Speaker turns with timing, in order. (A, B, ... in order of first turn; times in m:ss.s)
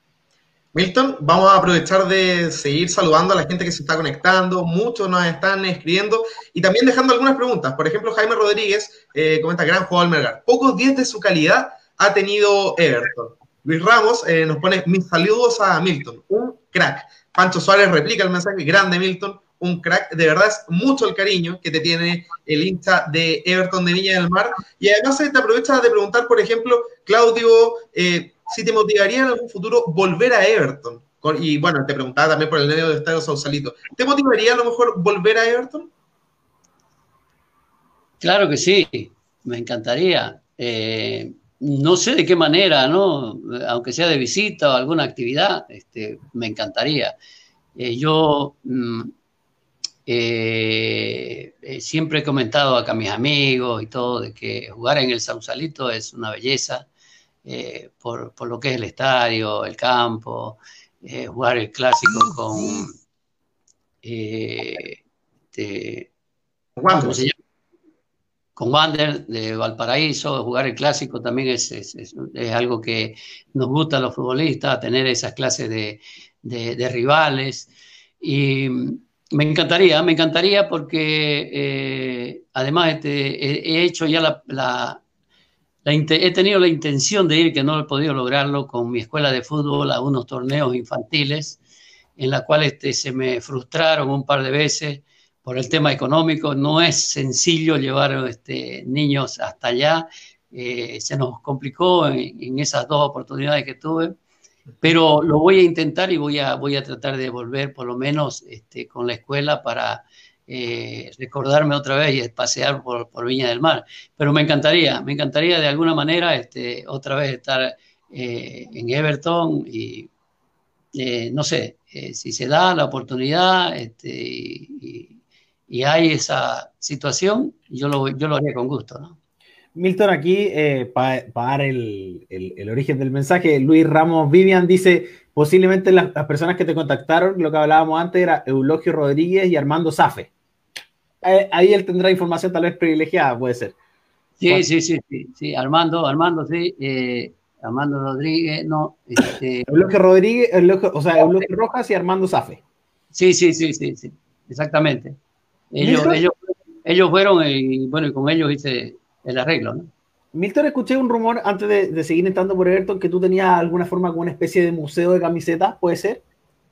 0:00.7-0:35.9 A
0:38.2-0:47.1 B
0:47.8-0:49.1 B
0:50.1-0:56.9 B
0:57.5-1:03.0 B
1:04.0-1:05.0 B
1:05.5-1:06.1 B
1:06.8-1:07.2 A
1:06.9-1:07.4 B
1:08.6-1:17.7 B
1:18.2-1:25.0 B
1:25.8-1:31.6 B
1:32.2-1:44.1 B
1:44.8-2:00.1 B
2:00.9-2:05.2 B
2:05.7-2:09.2 B
2:09.8-2:20.3 C
2:21.2-2:23.8 C
2:24.4-2:29.9 B
2:29.7-2:32.6 C
2:33.1-2:35.2 B
2:35.7-2:39.9 B
2:35.8-2:36.2 C
2:40.3-2:46.2 C